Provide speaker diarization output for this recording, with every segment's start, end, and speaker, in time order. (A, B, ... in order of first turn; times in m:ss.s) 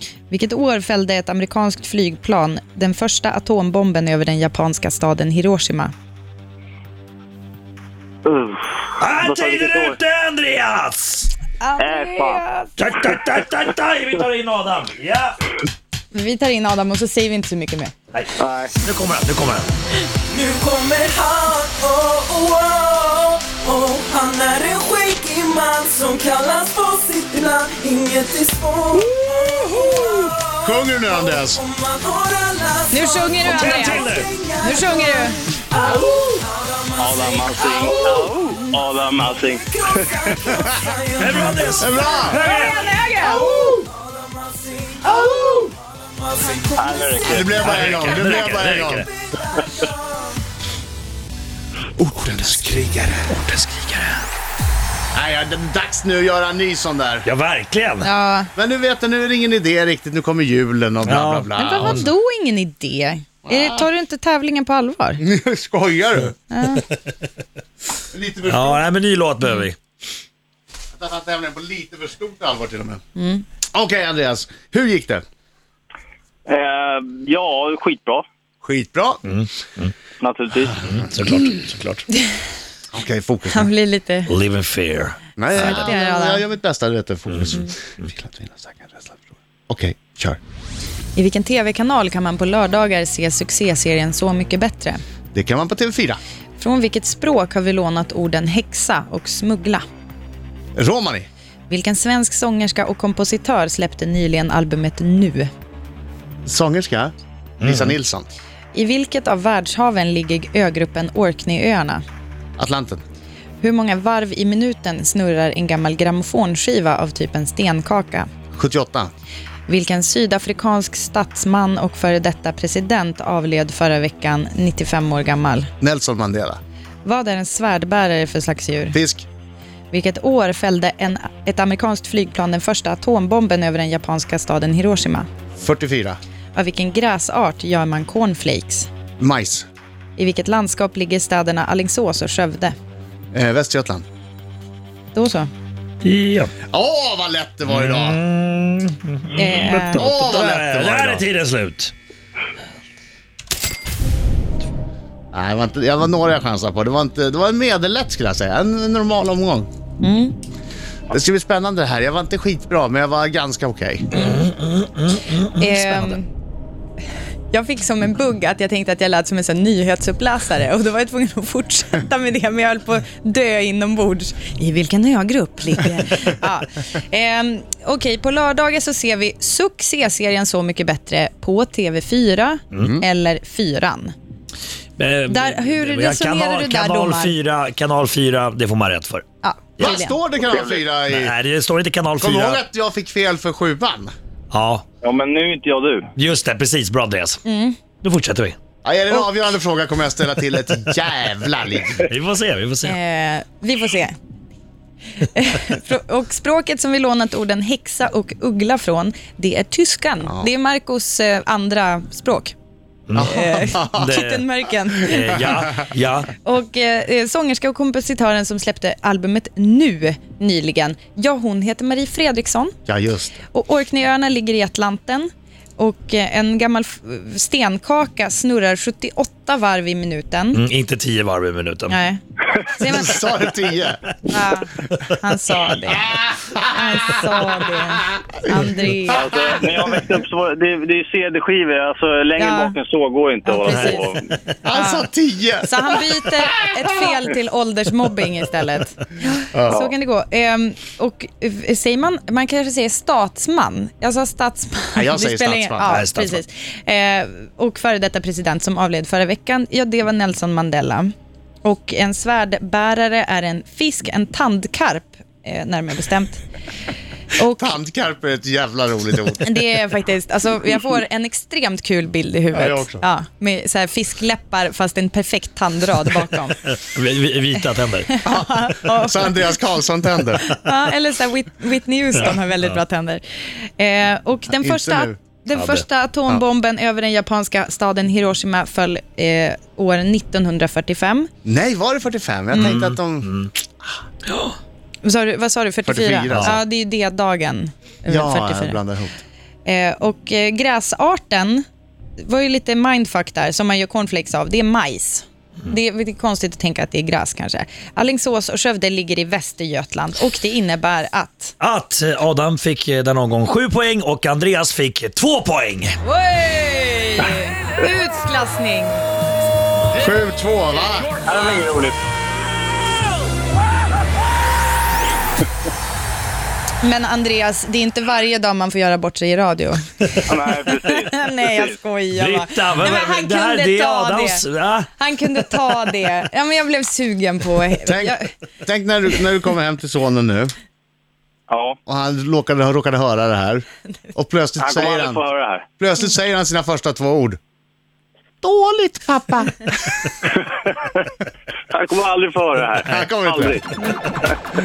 0:00.3-0:05.9 A
0:08.2-0:10.0 B
0:09.0-0:11.3 C
0:11.6-0:12.7 A
0:11.8-0:12.4 B
0:12.8-0:15.4 C
0:16.1-0:17.9 A
0:18.4-0:18.7 B
0:18.8-0:19.7 C
0:20.2-0:38.3 D
0:30.6-0:31.6 E
0:32.9-0:35.4 A
0:33.4-0:34.3 C
0:37.0-0:40.4 B
0:39.2-0:48.4 D
0:41.2-0:42.8 C
0:41.8-0:42.4 E
0:42.4-0:43.5 A
0:43.2-0:43.9 E
0:45.2-0:45.6 E
0:46.7-0:47.8 B
0:47.3-0:49.1 E
0:47.6-0:49.1 C
0:49.0-0:50.4 D
0:52.0-0:53.3 E
0:52.6-0:54.2 C
0:55.2-0:57.3 E
0:57.2-0:58.1 C
0:58.0-0:58.5 A
0:58.6-1:02.1 E
1:01.1-1:02.1 C
1:01.6-1:05.2 A
1:03.4-1:03.9 E
1:05.2-1:06.4 E
1:06.5-1:06.9 A
1:08.1-1:08.8 E
1:08.5-1:09.8 C
1:11.0-1:13.0 E
1:13.2-1:13.4 A
1:13.7-1:15.2 E
1:16.5-1:18.2 B
1:18.6-1:19.2 E
1:19.3-1:19.9 C
1:20.2-1:21.0 B
1:20.9-1:22.0 C
1:22.9-1:23.7 E
1:23.5-1:24.3 A
1:24.3-1:25.2 C
1:25.4-1:30.4 E
1:25.6-1:26.4 A
1:27.3-1:27.6 C
1:31.2-1:35.0 A
1:35.3-1:36.2 E
1:36.6-1:39.8 A
1:40.8-1:41.3 E
1:41.7-1:45.5 A
1:46.5-1:48.3 E
1:47.6-1:47.9 C
1:48.7-1:52.0 A
1:52.6-1:53.0 E
1:53.6-1:58.3 A
1:58.5-1:59.1 E
1:59.7-2:05.7 A
2:05.8-2:06.6 E
2:07.0-2:09.0 A
2:08.9-2:09.3 E
2:09.9-2:15.3 A
2:15.6-2:16.2 E
2:16.6-2:18.9 A
2:19.2-2:19.7 E
2:20.2-2:22.8 A
2:23.3-2:24.0 E
2:25.1-2:25.5 A
2:26.0-2:26.5 C
2:26.7-2:28.2 E
2:27.7-2:31.9 C
2:29.4-2:30.1 A
2:29.9-2:31.2 E
2:35.3-2:39.7 E
2:40.0-2:40.4 A
2:41.1-2:44.1 E
2:44.4-2:46.2 C
2:45.4-2:46.3 A
2:47.5-3:04.1 A
3:02.8-3:03.0 E
3:05.0-3:09.2 C
3:05.3-3:07.4 A
3:09.4-3:10.2 A
3:09.8-3:11.3 E
3:10.5-3:10.9 B
3:11.1-3:12.6 C
3:12.2-3:14.1 E
3:14.5-3:14.8 C
3:15.0-3:16.1 B
3:16.2-3:17.4 C
3:17.5-3:17.8 A
3:18.0-3:18.6 C
3:18.8-3:22.0 E
3:22.1-3:23.0 C
3:22.8-3:24.2 A
3:25.2-3:32.6 A
3:33.1-3:33.4 C
3:33.2-3:34.0 E
3:33.2-3:35.4 A
3:33.9-3:34.4 C
3:35.0-3:36.3 C
3:36.4-3:42.8 A
3:42.9-3:43.4 E
3:43.5-3:50.6 A
3:50.5-3:52.0 C
3:51.9-3:53.3 A
3:52.8-3:54.1 E
3:54.3-3:59.2 A
3:59.1-4:04.2 B
4:02.4-4:02.8 A
4:03.4-4:04.1 A
4:04.6-4:06.9 E
4:04.7-4:05.1 A
4:05.6-4:21.1 A
4:09.5-4:09.8 E
4:15.0-4:16.0 E
4:15.9-4:16.4 C
4:21.6-4:26.4 A
4:27.4-4:27.8 A
4:27.6-4:29.6 E
4:29.4-4:36.6 A
4:32.5-4:33.0 E
4:36.9-4:38.1 C
4:38.1-4:39.5 A
4:38.3-4:40.4 E
4:40.4-4:51.3 A
4:44.5-4:45.2 E
4:45.5-4:45.8 C
4:51.4-4:53.3 E
4:52.6-4:53.5 C
4:55.0-4:58.8 A
4:55.8-4:56.6 E
4:58.1-4:59.2 E
4:59.6-5:01.7 A
5:02.2-5:11.6 A
5:11.6-5:16.0 C
5:16.0-5:19.0 A
5:19.9-5:21.1 E
5:21.2-5:22.0 B
5:26.8-5:30.2 A
5:30.3-5:31.8 B
5:30.8-5:38.3 A
5:32.1-5:34.9 C
5:37.9-5:40.5 E
5:41.5-5:41.8 B
5:41.9-5:45.2 E
5:44.6-5:45.6 B
5:45.8-5:47.4 E
5:48.4-5:50.2 E
5:50.3-5:51.1 B
5:51.7-5:54.4 B
5:52.9-5:53.6 E